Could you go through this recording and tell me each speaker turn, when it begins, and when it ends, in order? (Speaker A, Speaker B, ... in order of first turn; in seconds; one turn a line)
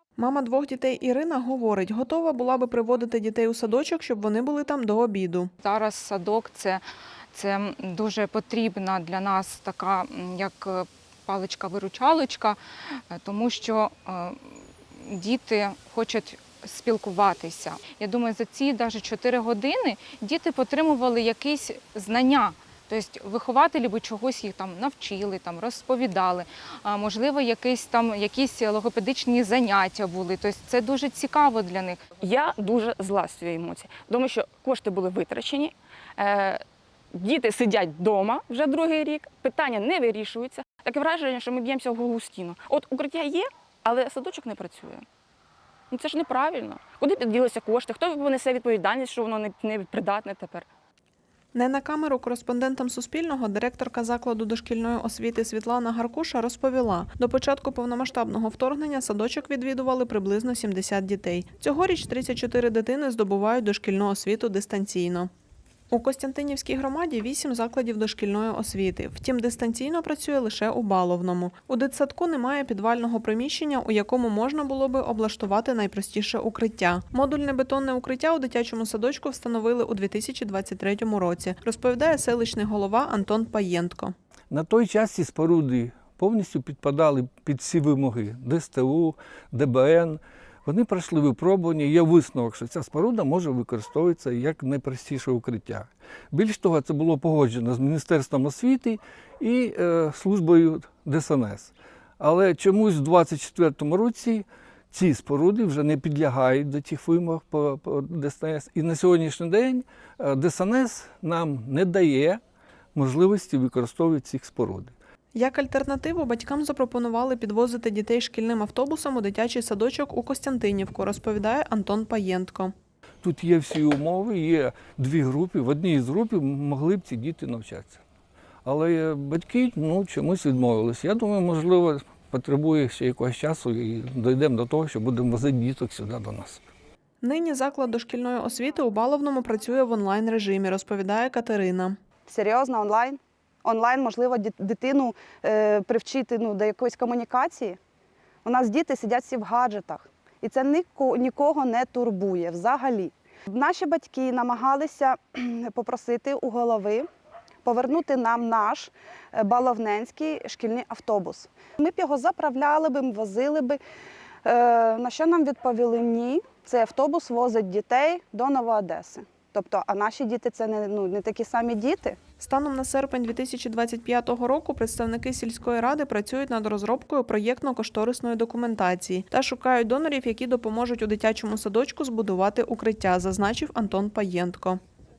Speaker A: 0.2-5.5
Speaker B: 5.6-6.8
Speaker B: 7.3-32.0
Speaker C: 32.2-36.6
Speaker C: 37.1-45.0
Speaker C: 45.9-50.6
Speaker A: 51.5-65.3
Speaker A: 65.9-84.1
Speaker D: 84.5-112.4
Speaker D: 112.9-114.9
Speaker A: 115.3-122.7
Speaker D: 123.2-128.0
Speaker D: 128.6-136.6
Speaker A: 137.2-142.0
Speaker E: 142.3-147.8
Speaker E: 148.4-157.1
Speaker E: 157.6-163.8
Speaker E: 164.4-172.2
Speaker A: 172.4-184.8